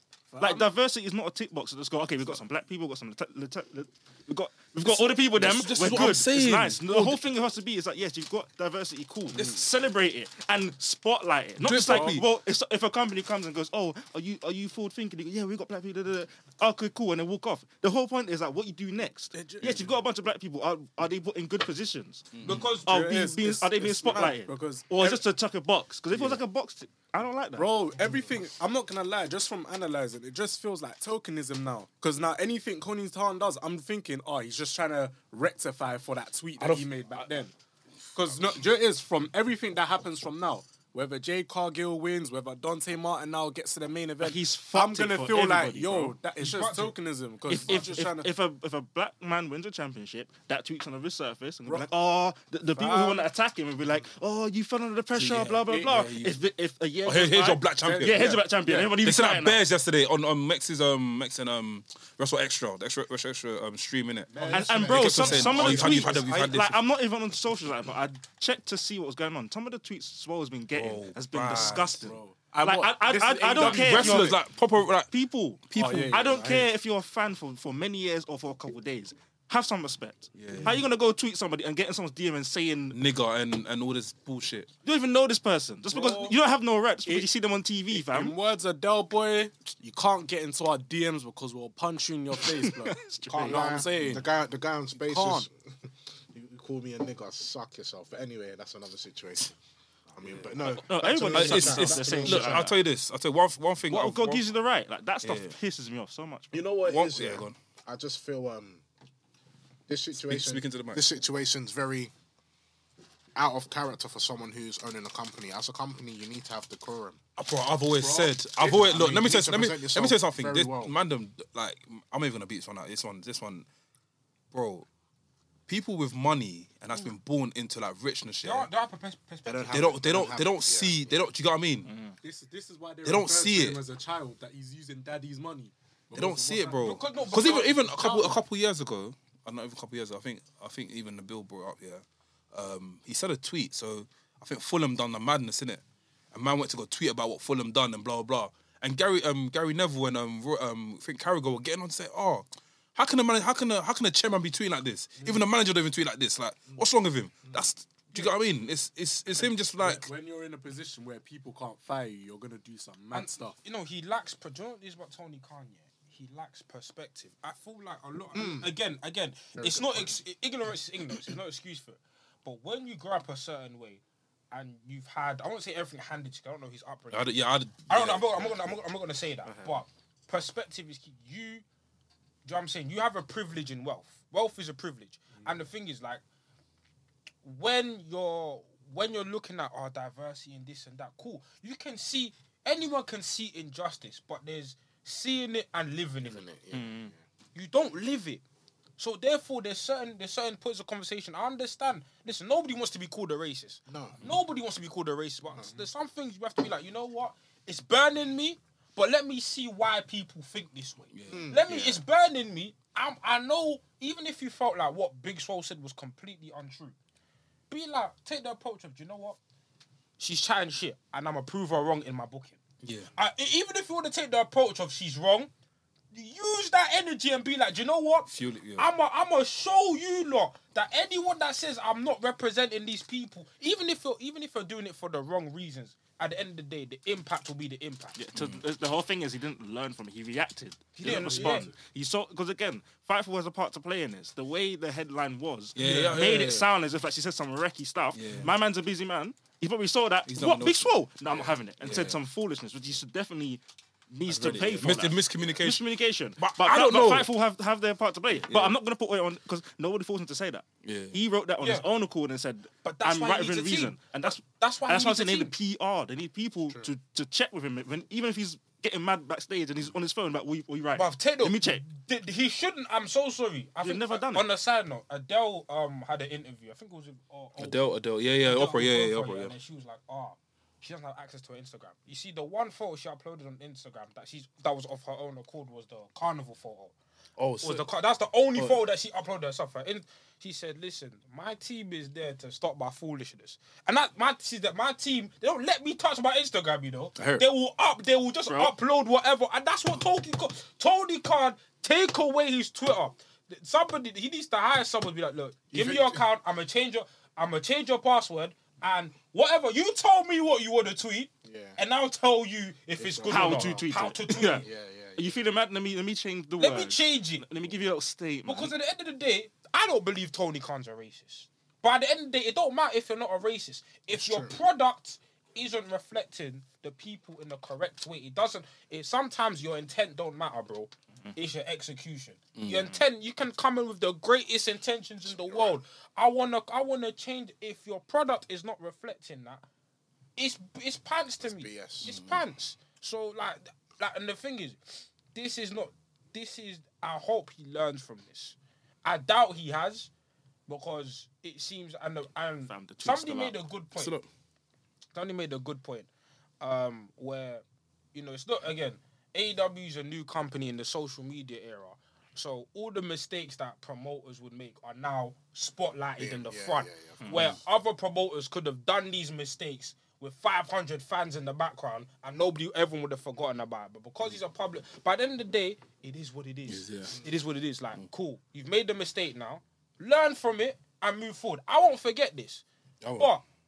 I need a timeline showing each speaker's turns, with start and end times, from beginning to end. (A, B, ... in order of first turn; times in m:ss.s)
0:00.3-0:00.7 A
0:00.4-0:27.7 B
0:04.8-0:07.2 C
0:09.3-0:09.6 C
0:11.6-0:12.2 C
0:19.3-0:19.9 A
0:22.3-0:22.7 C
0:22.4-0:22.9 D
0:22.9-0:25.2 A
0:26.1-0:26.4 A
0:27.6-0:37.5 A
0:36.6-0:37.3 C
0:38.2-0:48.3 A
0:44.2-0:46.2 B
0:46.4-0:47.0 D
0:47.5-0:59.6 B
0:52.8-0:53.2 A
0:55.1-0:56.4 C
0:55.7-0:56.0 A
0:57.0-0:58.5 C
0:57.8-0:59.0 A
0:59.0-1:06.8 C
1:04.3-1:06.1 A
1:04.4-1:06.5 E
1:04.5-1:14.4 B
1:10.7-1:12.1 C
1:11.5-1:14.4 A
1:13.5-1:15.1 C
1:15.0-1:23.0 B
1:15.7-1:16.4 C
1:15.8-1:16.7 A
1:20.4-1:20.8 C
1:22.9-1:24.7 C
1:24.8-1:28.4 B
1:25.9-1:26.4 A
1:27.9-1:34.3 A
1:32.4-1:34.2 B
1:33.3-1:35.5 E
1:35.0-1:35.5 A
1:36.3-1:39.5 E
1:40.1-1:42.7 E
1:40.6-1:42.8 B
1:41.3-1:44.4 C
1:43.9-1:46.6 B
1:45.2-1:45.5 C
1:46.5-1:48.8 E
1:46.8-1:47.6 C
1:49.9-1:52.1 E
1:50.2-1:51.0 C
1:53.4-1:57.2 E
1:57.4-2:03.7 C
1:58.0-1:59.0 A
1:58.6-2:01.0 E
2:04.5-2:04.9 C
2:05.7-2:08.7 C
2:08.4-2:09.9 D
2:09.5-2:11.2 E
2:09.7-2:11.9 C
2:11.8-2:12.2 B
2:12.2-2:17.0 A
2:13.0-2:13.8 C
2:16.1-2:40.1 C
2:16.8-2:18.4 D
2:39.7-2:43.6 A
2:43.1-3:01.6 D
2:48.4-2:48.7 E
2:49.6-2:50.2 E
2:57.1-2:58.6 C
2:59.5-2:59.8 B
3:02.4-3:06.2 D
3:07.4-3:16.5 D
3:16.2-3:17.2 E
3:16.7-3:17.1 B
3:17.6-3:18.4 D
3:19.0-3:37.0 D
3:23.9-3:24.2 E
3:31.1-3:31.5 C
3:31.3-3:32.0 E
3:37.7-3:39.4 D
3:40.2-3:42.6 D
3:42.8-3:43.1 C
3:43.2-3:45.5 D
3:46.1-3:58.2 D
3:48.3-3:48.9 C
3:58.2-4:31.8 B
3:58.3-3:58.6 C
4:01.0-4:01.7 D
4:01.1-4:01.8 A
4:05.8-4:06.7 C
4:05.8-4:06.2 D
4:08.1-4:08.5 C
4:10.3-4:12.2 C
4:14.3-4:15.8 C
4:16.4-4:17.3 C
4:18.4-4:18.8 C
4:20.8-4:21.2 C
4:21.6-4:21.9 D
4:22.8-4:25.5 D
4:31.0-4:37.9 D
4:33.8-4:34.5 B
4:37.6-4:39.5 C
4:38.4-4:46.9 D
4:47.4-4:47.9 C
4:47.6-5:14.7 D
4:48.6-4:48.8 C
4:57.2-4:57.5 C
4:58.5-4:58.7 B
5:05.7-5:06.2 E
5:11.4-5:11.8 E
5:13.0-5:15.4 E
5:13.3-5:18.7 B
5:16.6-5:17.5 D
5:18.4-5:39.6 D
5:24.1-5:24.6 E
5:32.6-5:33.0 C
5:35.3-5:35.8 E
5:40.4-5:44.8 D
5:41.4-5:42.2 E
5:42.0-5:42.4 C
5:45.3-5:50.1 D
5:50.7-5:54.2 D
5:52.7-5:53.6 B
5:54.0-5:54.3 C
5:55.1-5:56.1 D
5:56.6-6:22.6 D
6:06.2-6:07.3 E
6:07.2-6:07.5 B
6:07.3-6:07.6 C
6:16.7-6:17.2 C
6:23.0-6:23.3 C
6:23.2-6:23.4 D